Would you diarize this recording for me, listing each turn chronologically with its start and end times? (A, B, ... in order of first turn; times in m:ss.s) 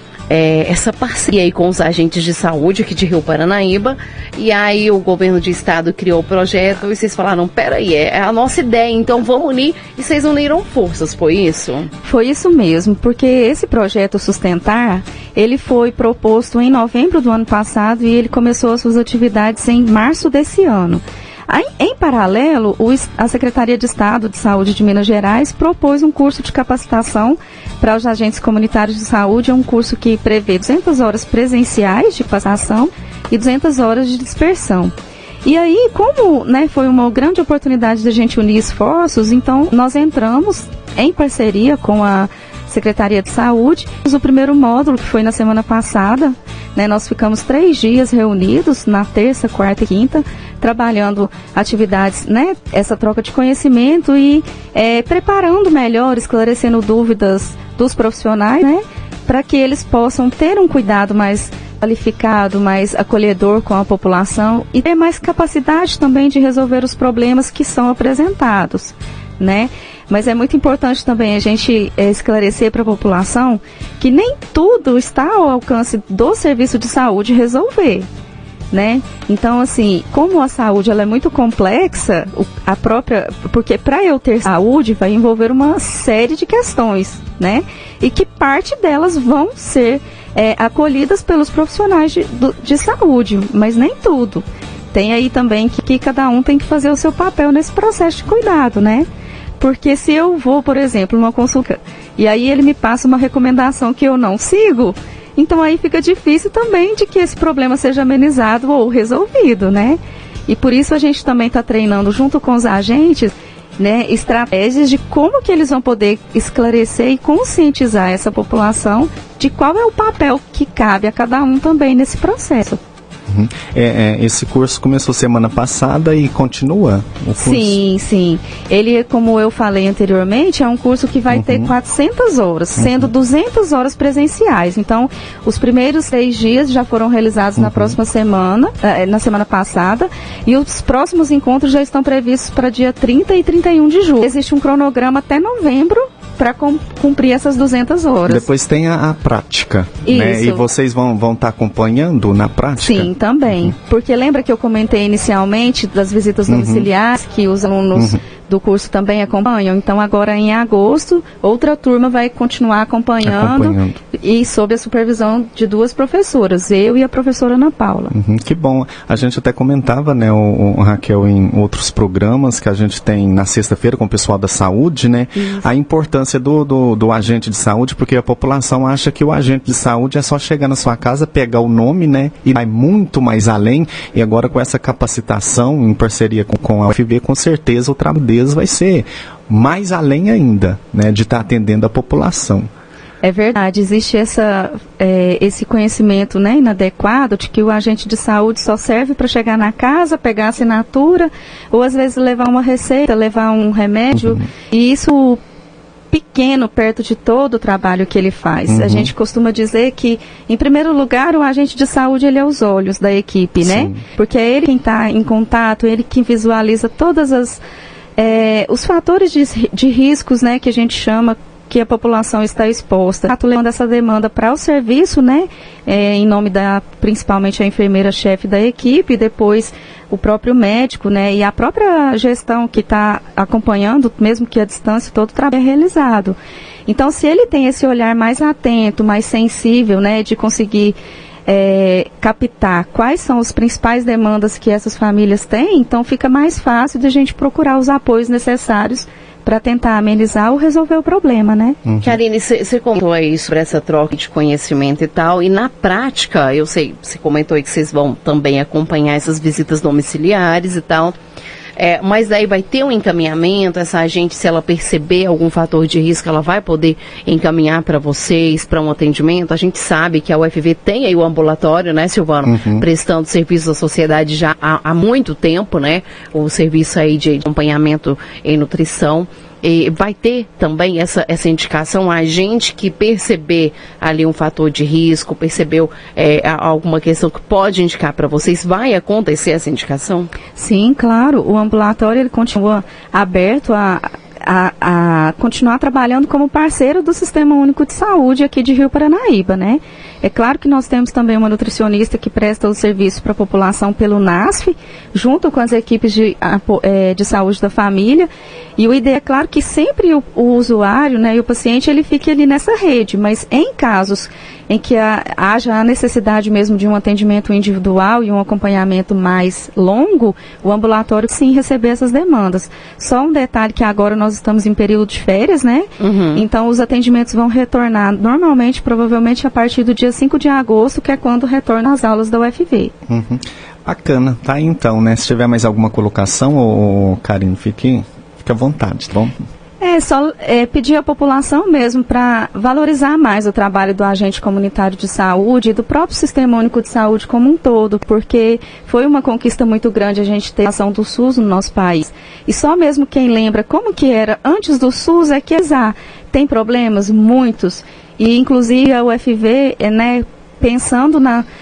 0:00.3-0:11.9 A
0:12.0-0:34.9 B
0:35.4-1:18.1 B
1:18.7-1:39.1 B
1:39.6-2:02.8 B
2:03.3-2:07.8 C
2:07.4-2:28.5 B
2:11.3-2:11.7 C
2:12.8-2:13.1 C
2:17.6-2:18.0 C
2:28.2-2:33.7 C
2:30.0-2:30.6 B
2:32.8-2:48.1 B
2:36.5-2:36.9 C
2:43.2-2:44.0 C
2:48.1-3:12.7 C
3:13.2-3:25.4 B
3:26.1-3:37.6 B
3:28.7-3:29.1 C
3:33.6-3:34.0 C
3:38.2-4:11.8 B
4:11.8-4:12.1 C
4:12.0-4:21.2 A
4:21.8-4:50.3 A
4:32.4-4:32.8 C
4:50.5-5:32.9 B
5:26.0-5:26.4 A
5:33.1-5:39.4 C
5:39.8-6:01.4 B